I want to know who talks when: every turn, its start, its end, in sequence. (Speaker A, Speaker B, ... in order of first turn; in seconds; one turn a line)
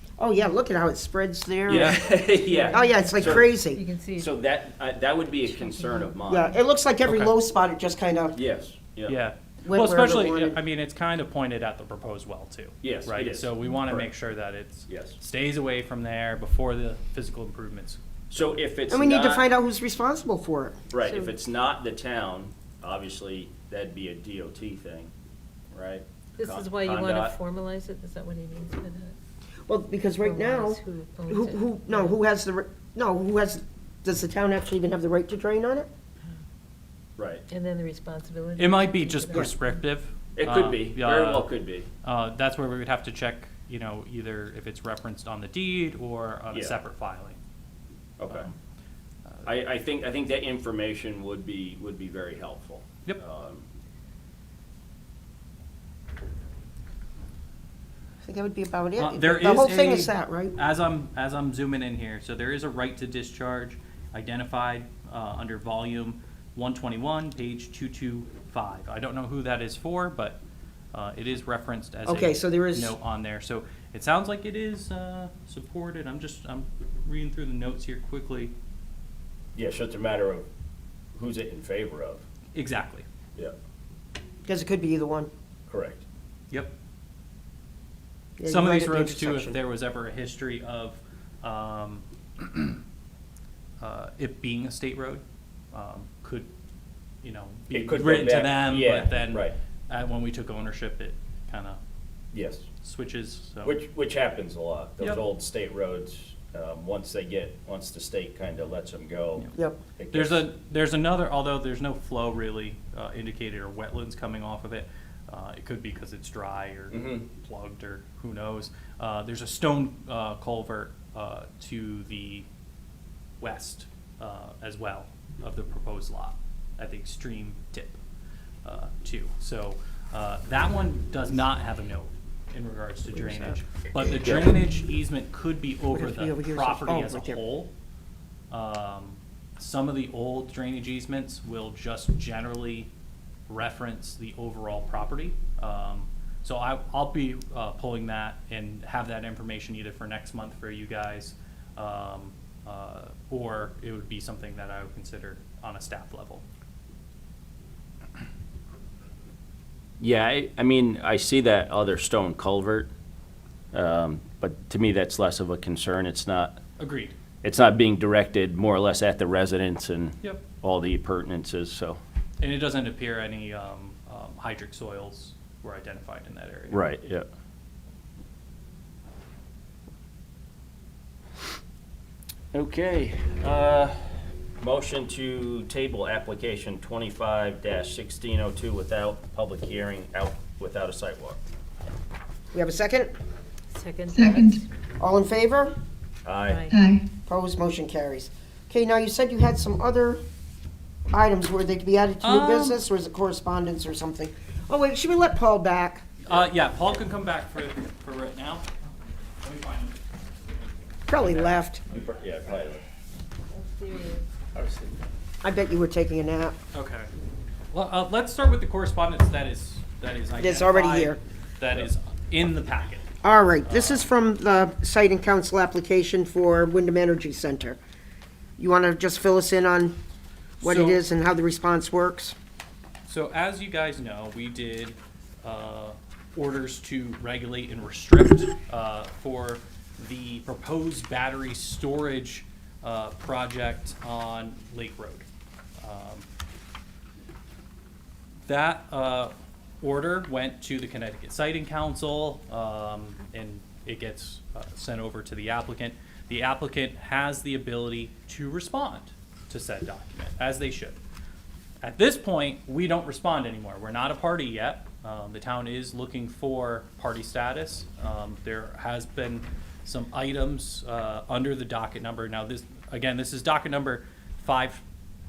Speaker A: 0.2-2.0
Speaker B: 1.7-3.5
Speaker C: 1.7-2.3
Speaker D: 2.4-4.3
Speaker A: 2.7-3.8
Speaker B: 4.1-6.5
Speaker D: 5.5-6.1
Speaker A: 6.2-8.4
Speaker C: 7.0-7.3
Speaker B: 8.3-9.2
Speaker C: 9.1-18.0
Speaker A: 9.6-10.6
Speaker B: 12.8-14.1
Speaker B: 14.9-15.2
Speaker B: 18.3-19.4
Speaker A: 18.9-20.9
Speaker B: 20.9-25.1
Speaker B: 25.7-27.4
Speaker D: 26.4-29.1
Speaker A: 29.7-35.9
Speaker D: 30.2-32.1
Speaker B: 37.2-37.4
Speaker D: 37.5-39.7
Speaker C: 38.6-41.5
Speaker B: 40.4-41.9
Speaker C: 42.0-47.4
Speaker B: 46.5-46.8
Speaker B: 48.2-48.5
Speaker B: 49.4-53.6
Speaker A: 58.2-60.5
Speaker C: 59.0-70.4
Speaker C: 70.9-78.5
Speaker A: 72.0-72.9
Speaker B: 79.5-80.5
Speaker B: 81.1-82.2
Speaker C: 82.5-83.0
Speaker A: 84.5-85.3
Speaker B: 85.7-86.0
Speaker A: 88.4-89.6
Speaker C: 88.4-92.7
Speaker C: 93.8-96.5
Speaker C: 97.2-101.8
Speaker B: 97.7-99.5
Speaker B: 102.3-102.7
Speaker C: 102.8-103.8
Speaker B: 103.6-110.5
Speaker A: 109.5-109.8
Speaker C: 110.1-122.5
Speaker B: 116.9-117.2
Speaker C: 123.4-128.0
Speaker C: 128.6-137.7
Speaker A: 133.1-133.6
Speaker A: 135.9-137.4
Speaker C: 138.5-142.9
Speaker C: 143.5-156.4
Speaker B: 160.0-162.9
Speaker B: 163.7-166.6
Speaker C: 166.8-167.2
Speaker B: 167.4-172.0
Speaker C: 172.4-176.8
Speaker B: 176.7-177.3
Speaker B: 182.5-191.4
Speaker A: 192.5-193.1
Speaker D: 193.7-194.7
Speaker A: 195.0-195.8
Speaker B: 196.2-196.7
Speaker D: 196.4-196.8
Speaker A: 197.2-200.2
Speaker A: 201.1-206.1
Speaker C: 202.2-202.8
Speaker C: 206.2-208.7
Speaker C: 209.4-209.9
Speaker A: 211.1-211.8
Speaker C: 211.2-211.6
Speaker B: 211.9-212.8
Speaker D: 213.5-214.2
Speaker B: 214.5-214.9
Speaker A: 215.4-216.6
Speaker C: 216.7-217.1
Speaker C: 217.7-223.1
Speaker A: 220.4-221.2
Speaker A: 223.2-227.8
Speaker C: 223.6-224.1
Speaker A: 228.6-230.0
Speaker C: 230.6-231.0
Speaker A: 230.6-232.3
Speaker C: 233.1-245.3
Speaker C: 245.8-246.2
Speaker C: 248.5-261.0
Speaker C: 261.8-274.8